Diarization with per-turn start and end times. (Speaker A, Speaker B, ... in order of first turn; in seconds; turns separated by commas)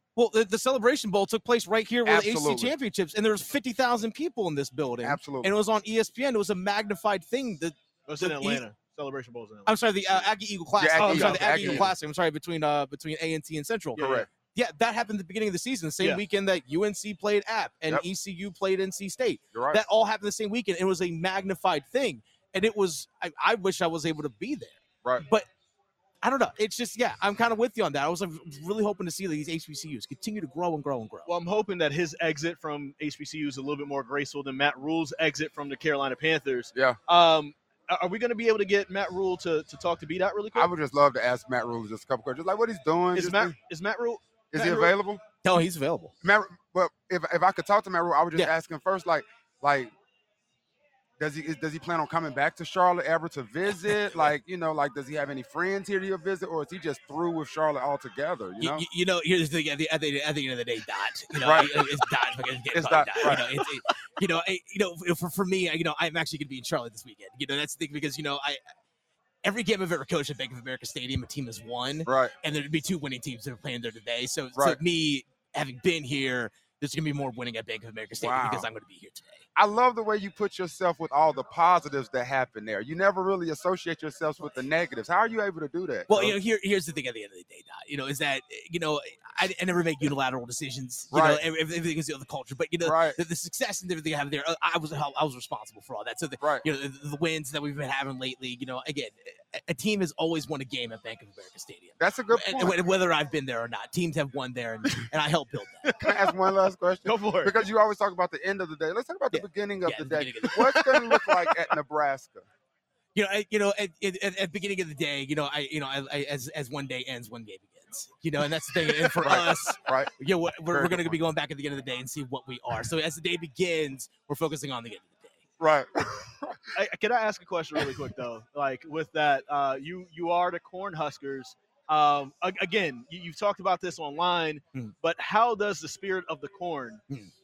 Speaker A: 0.2-8.6, Speaker B: 2.0-2.8, Speaker B: 5.0-5.6, Speaker C: 8.1-10.3, Speaker A: 9.7-25.5, Speaker B: 10.8-11.9, Speaker C: 11.0-11.9, Speaker C: 13.9-14.3, Speaker B: 14.0-14.3, Speaker B: 19.5-19.8, Speaker A: 26.2-31.3, Speaker C: 31.3-40.7, Speaker B: 40.5-43.6, Speaker C: 43.1-45.0, Speaker B: 44.5-45.6, Speaker A: 45.4-46.1, Speaker B: 46.2-49.9, Speaker B: 51.2-58.9, Speaker A: 58.6-68.6, Speaker B: 61.4-61.8, Speaker B: 62.7-63.5, Speaker A: 69.4-79.4, Speaker B: 72.0-72.3, Speaker B: 78.2-78.7, Speaker B: 79.6-86.4, Speaker A: 86.1-105.9, Speaker B: 91.1-91.4, Speaker B: 92.8-93.2, Speaker B: 96.4-96.7, Speaker B: 102.0-102.9, Speaker C: 105.9-106.2, Speaker B: 106.0-112.5, Speaker C: 107.0-107.6, Speaker A: 109.3-110.7, Speaker C: 110.5-111.4, Speaker A: 113.2-125.4, Speaker B: 118.9-120.1, Speaker B: 120.7-121.2, Speaker B: 125.6-126.7, Speaker C: 126.8-137.0